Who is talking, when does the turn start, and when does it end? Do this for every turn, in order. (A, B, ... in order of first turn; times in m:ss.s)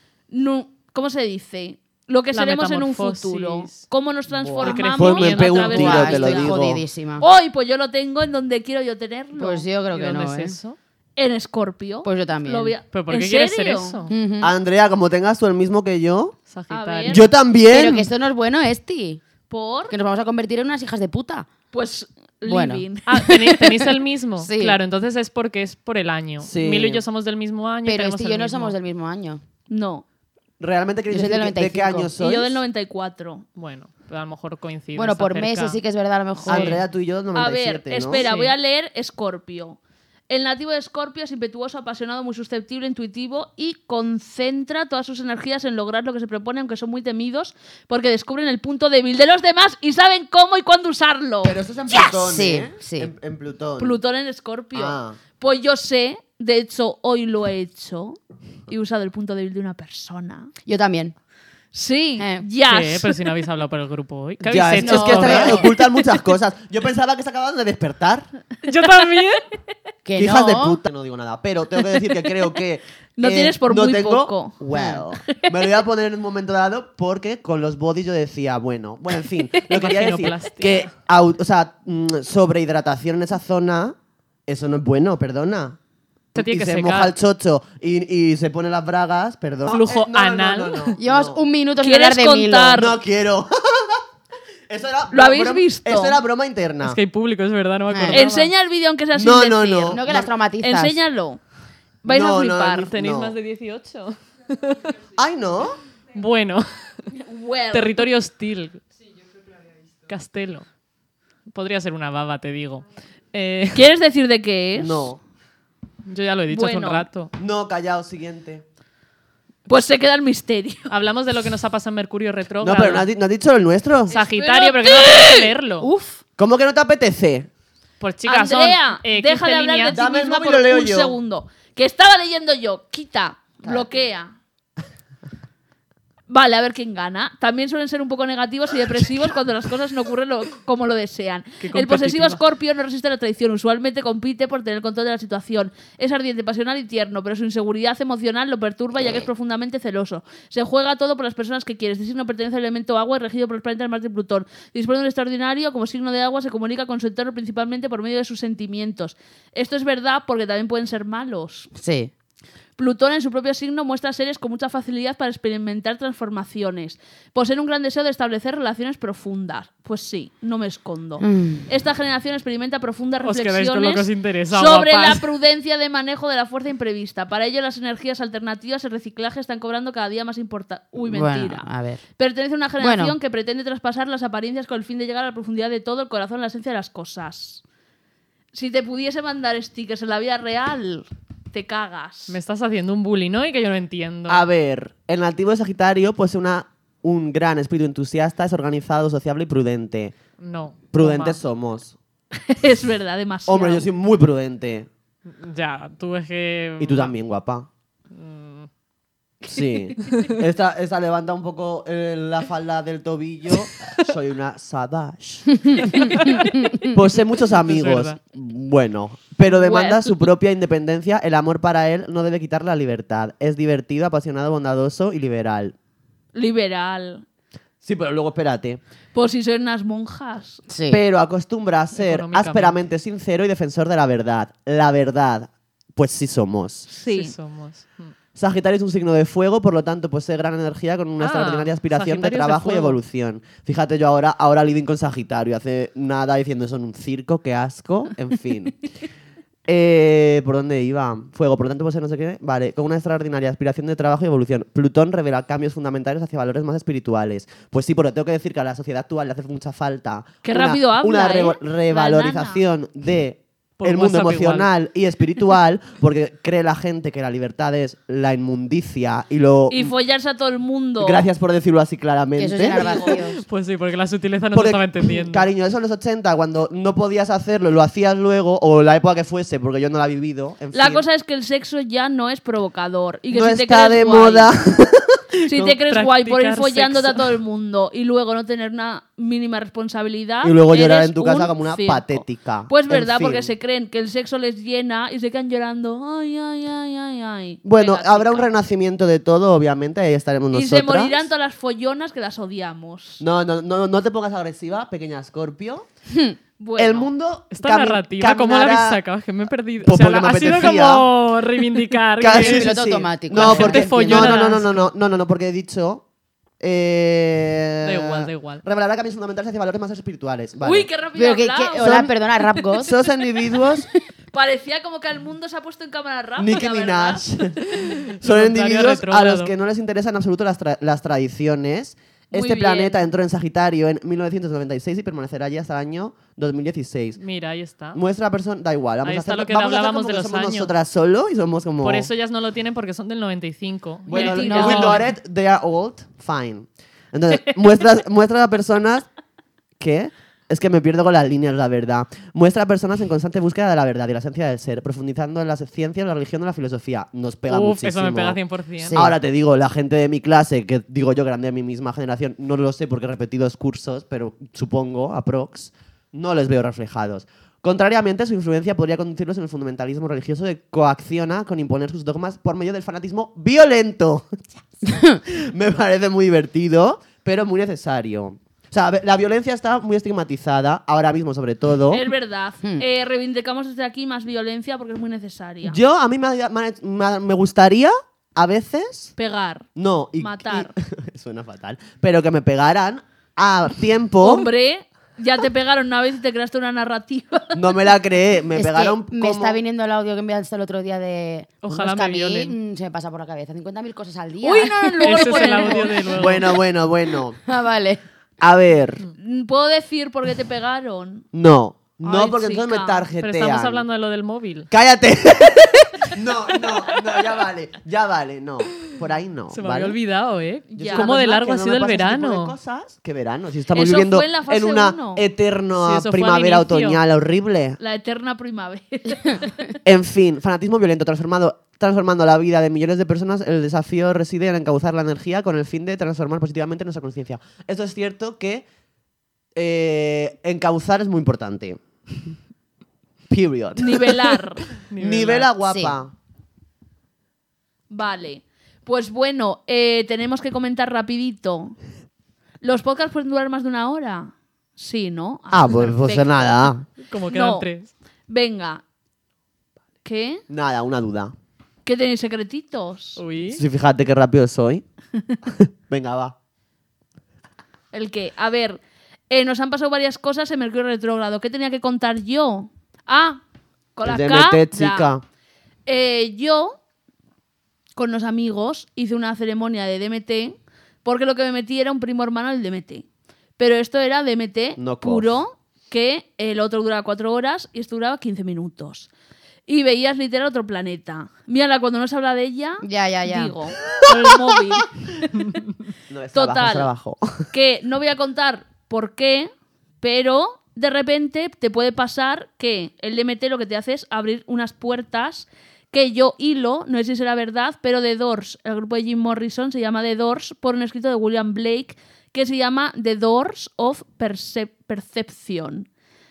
0:00.3-0:06.5 A
0:02.3-0:03.8 B
0:04.4-0:06.8 C
0:04.6-0:06.1 B
0:05.6-0:07.2 D
0:07.2-0:09.6 A
0:09.3-0:10.6 D
0:09.9-0:10.8 B
0:11.2-0:14.0 A
0:12.0-0:12.7 D
0:12.9-0:14.1 B
0:14.1-0:14.5 D
0:14.4-0:16.4 C
0:16.5-0:17.3 B
0:16.7-0:17.2 A
0:17.1-0:18.1 C
0:17.7-0:19.2 D
0:19.5-0:19.9 A
0:19.9-0:21.5 D
0:21.7-0:23.3 A
0:22.4-0:24.8 D
0:23.0-0:28.7 B
0:26.4-0:27.0 C
0:27.8-0:29.4 D
0:29.7-0:30.0 A
0:30.6-0:32.6 C
0:31.1-0:32.1 D
0:32.2-0:33.4 A
0:33.6-0:35.8 B
0:34.9-0:36.8 D
0:36.4-0:36.8 B
0:36.5-0:38.2 C
0:37.3-0:39.8 A
0:38.1-0:38.5 B
0:40.3-0:52.1 A
0:51.4-0:54.0 C
0:52.0-0:53.1 D
0:53.8-1:00.5 A
0:54.7-0:55.2 C
1:00.6-1:01.1 D
1:01.7-1:03.1 A
1:02.2-1:02.4 D
1:02.7-1:05.7 B
1:04.4-1:08.3 C
1:04.8-1:05.7 D
1:08.6-1:09.4 B
1:10.0-1:10.8 D
1:10.2-1:23.9 C
1:13.2-1:14.6 A
1:14.7-1:15.0 D
1:15.2-1:15.5 A
1:19.6-1:20.9 B
1:24.5-1:25.8 C
1:26.3-1:31.4 C
1:26.3-1:27.1 B
1:29.7-1:31.0 B
1:31.0-1:32.8 D
1:31.8-1:33.0 A
1:32.7-1:34.0 C
1:34.7-1:37.0 C
1:35.1-1:36.2 A
1:36.8-1:38.5 B
1:37.9-1:38.2 D
1:38.1-1:41.4 A
1:39.1-1:40.2 C
1:39.9-1:41.0 D
1:42.0-1:42.9 A
1:42.1-1:43.3 C
1:42.8-1:45.0 B
1:45.2-1:45.8 C
1:46.1-1:47.1 B
1:47.1-1:48.0 A
1:47.7-1:48.8 B
1:50.0-1:50.6 B
1:51.5-1:53.9 B
1:53.7-1:55.1 A
1:54.8-1:55.2 C
1:56.0-1:57.3 B
1:56.5-1:57.0 A
1:57.4-1:58.6 C
1:59.7-2:00.9 A
2:00.9-2:03.1 B
2:02.6-2:04.1 C
2:04.1-2:05.9 B
2:04.1-2:05.9 A
2:05.8-2:06.1 D
2:06.4-2:07.5 C
2:08.0-2:10.0 B
2:08.2-2:14.3 A
2:09.9-2:11.2 C
2:13.6-2:14.0 C
2:16.3-2:41.7 A
2:21.6-2:22.4 B
2:41.7-2:42.1 D
2:42.8-3:07.6 A
2:51.2-2:51.6 D
2:53.2-2:55.2 B
3:01.0-3:02.0 D
3:02.8-3:03.2 D
3:08.5-3:12.4 A
3:12.3-3:14.4 B
3:14.3-3:20.1 C
3:20.4-3:21.4 B
3:20.9-3:22.0 C
3:22.4-3:23.8 A
3:23.5-3:24.9 C
3:25.3-3:27.1 B
3:26.8-3:27.7 C
3:28.1-3:28.7 B
3:29.4-3:45.7 C
3:30.0-3:30.4 B
3:35.9-3:36.6 B
3:37.4-3:38.2 B
3:39.5-3:40.2 A
3:46.3-3:47.2 A
3:47.8-3:48.8 C
3:49.1-3:50.6 A
3:50.7-3:51.0 D
3:50.9-3:56.9 C
3:51.9-3:52.8 B
3:56.9-3:57.3 A
3:57.0-3:58.1 B
3:58.3-4:08.8 C
4:01.2-4:03.0 B
4:09.7-4:29.9 C
4:20.4-4:22.6 A
4:23.8-4:24.7 B
4:29.7-4:31.2 A
4:31.0-4:33.0 C
4:32.4-4:33.4 D
4:32.7-4:33.2 A
4:33.2-4:35.5 B
4:34.5-4:41.0 C
4:40.7-4:44.5 A
4:43.3-4:45.8 C
4:45.4-4:58.5 A
4:45.8-4:47.2 B
4:50.4-4:53.5 C
4:57.6-5:01.2 C
5:00.5-5:03.2 A
5:03.2-5:05.8 C
5:06.1-5:06.4 D
5:06.6-5:07.1 A
5:06.8-5:09.0 C
5:07.5-5:12.8 B
5:09.8-5:11.1 C
5:12.2-5:16.0 C
5:12.3-5:14.4 D
5:13.3-5:14.9 B
5:16.6-5:20.9 C
5:17.8-5:18.6 B
5:20.6-5:22.1 A
5:21.1-5:22.9 D
5:21.8-5:22.1 C
5:22.8-5:23.9 C
5:24.3-5:27.4 A
5:26.4-5:37.2 C
5:27.8-5:29.5 B
5:32.3-5:33.0 A
5:37.2-5:38.0 B
5:37.9-5:42.1 C
5:39.0-5:40.7 B
5:41.8-5:45.0 B
5:44.1-5:49.1 C
5:44.1-5:45.0 A
5:49.8-5:58.4 C
5:57.5-5:59.1 B
5:58.9-6:22.0 C
6:21.9-6:25.8 A
6:25.6-6:29.1 C
6:29.2-6:29.7 A
6:29.8-6:34.5 C
6:30.2-6:30.7 A
6:34.2-6:37.7 A
6:37.5-6:39.6 C
6:38.5-6:46.1 D
6:41.6-6:42.5 B
6:44.4-6:46.4 A
6:45.0-6:46.5 B
6:46.2-6:47.4 C
6:47.4-6:48.0 D
6:48.4-6:49.0 C
6:49.1-6:51.2 A
6:51.3-6:53.8 C
6:52.0-6:53.1 A
6:53.2-6:54.7 B
6:54.7-7:00.0 C
6:59.5-7:02.5 B
7:00.7-7:01.1 A
7:00.7-7:07.8 C
7:03.7-7:05.2 A
7:05.8-7:07.0 B
7:07.8-7:09.8 A
7:09.8-7:18.6 C
7:19.5-7:22.3 C
7:23.3-7:24.4 C
7:23.8-7:24.7 A
7:24.9-7:25.5 B
7:24.9-7:26.1 C
7:25.6-7:26.0 D
7:27.9-7:31.8 A
7:32.6-7:36.7 A
7:35.5-7:36.8 C
7:37.0-7:37.9 B
7:37.3-7:37.7 A
7:38.3-7:38.8 A
7:40.0-7:40.4 A
7:40.5-7:41.3 C
7:41.8-7:43.2 A
7:43.2-7:43.6 B
7:43.5-7:44.8 C
7:45.4-7:46.3 C
7:47.9-7:53.4 A
7:53.9-7:55.1 A
7:54.0-7:55.2 C
7:55.8-7:56.8 A
7:57.9-8:03.0 A
8:03.6-8:09.1 A
8:04.8-8:05.4 C
8:09.7-8:14.9 A
8:12.8-8:13.5 D
8:14.0-8:14.4 C
8:16.1-8:17.5 C
8:16.3-8:16.9 A
8:17.5-8:35.9 A